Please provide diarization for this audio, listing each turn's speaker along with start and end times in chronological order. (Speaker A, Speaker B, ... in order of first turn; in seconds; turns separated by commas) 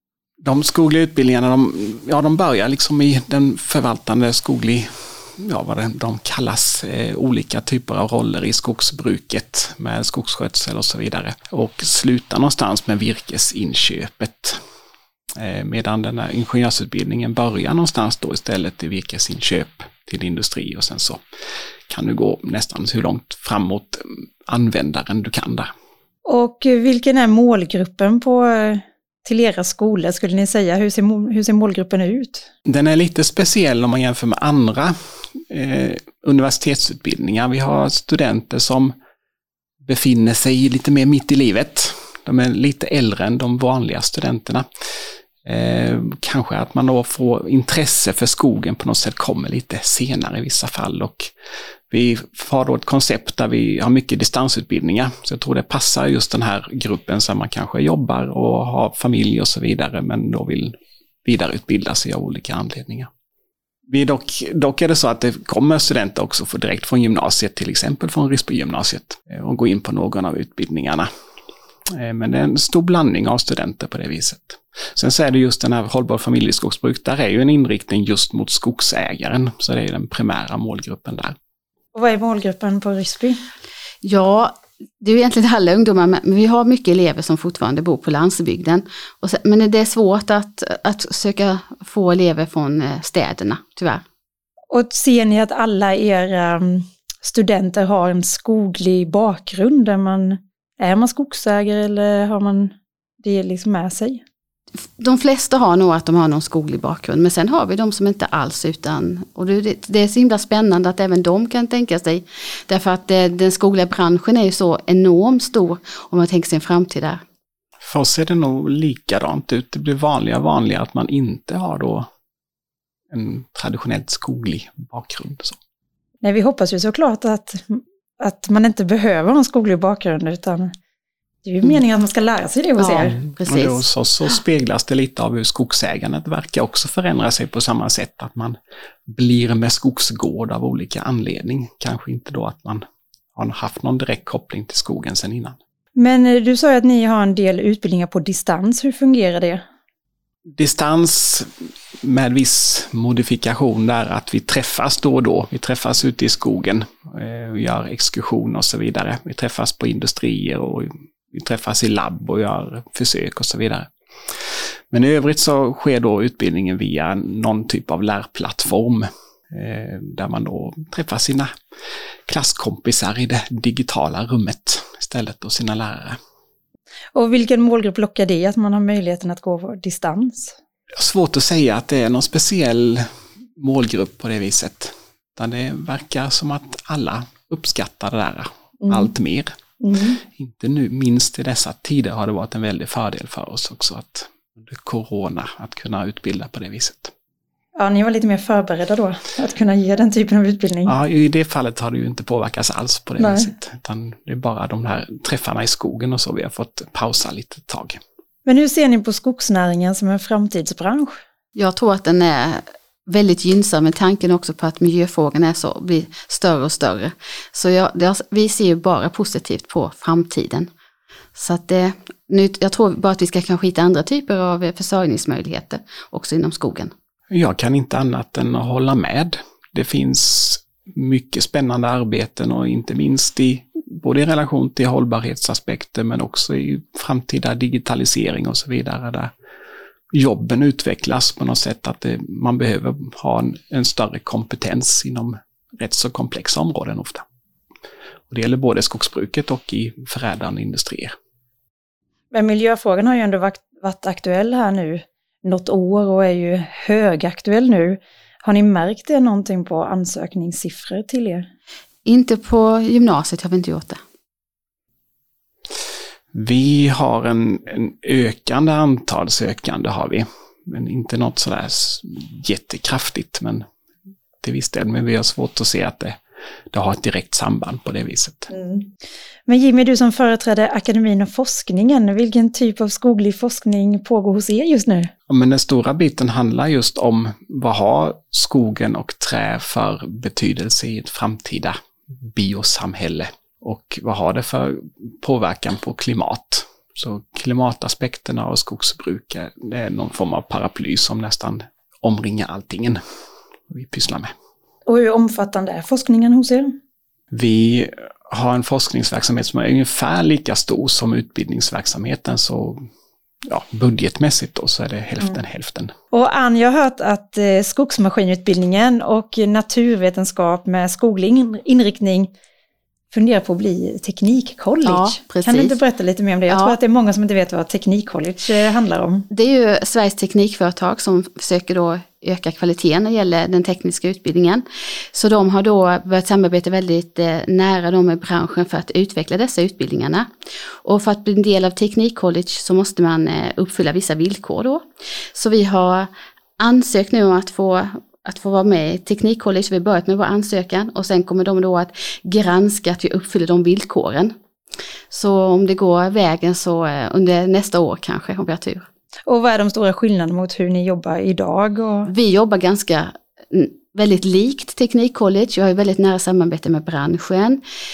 Speaker A: 0.4-14.6, Speaker A: 15.4-21.2, Speaker A: 21.9-25.7, Speaker B: 26.2-32.5, Speaker A: 32.7-38.9, Speaker A: 39.8-44.7, Speaker A: 45.5-51.3, Speaker A: 51.9-63.1, Speaker A: 63.9-71.1, Speaker A: 71.9-81.3, Speaker B: 81.9-83.4, Speaker C: 84.0-94.0, Speaker B: 94.7-104.2, Speaker C: 105.0-117.2, Speaker A: 117.8-122.1, Speaker A: 123.1-125.6, Speaker B: 126.2-130.7, Speaker B: 131.4-133.2, Speaker C: 132.8-133.8, Speaker A: 133.4-145.6, Speaker B: 146.0-149.6, Speaker A: 150.6-151.5, Speaker A: 152.0-171.5, Speaker A: 172.3-176.2, Speaker B: 177.1-180.6, Speaker A: 181.0-183.1, Speaker A: 183.6-189.5, Speaker B: 188.8-189.1, Speaker B: 189.8-190.2, Speaker A: 190.2-197.1, Speaker B: 197.8-200.9, Speaker A: 200.8-208.0, Speaker B: 203.2-203.5, Speaker B: 208.4-211.2, Speaker C: 211.6-220.7, Speaker C: 221.4-226.9, Speaker A: 227.3-239.3, Speaker A: 240.1-247.2, Speaker A: 248.3-251.2, Speaker B: 252.3-261.5, Speaker C: 262.1-264.0, Speaker A: 266.3-273.6, Speaker A: 274.4-276.2, Speaker A: 276.7-278.5, Speaker B: 278.5-278.9, Speaker B: 279.5-285.1, Speaker A: 285.3-303.0, Speaker A: 303.7-304.3, Speaker B: 304.9-306.8, Speaker A: 307.3-312.9, Speaker A: 313.5-315.9, Speaker B: 316.1-322.3, Speaker B: 323.1-329.3, Speaker C: 324.9-325.8, Speaker C: 326.5-326.8, Speaker C: 329.3-340.3, Speaker C: 340.8-354.4, Speaker C: 355.1-358.9, Speaker B: 359.3-362.1, Speaker C: 362.1-367.6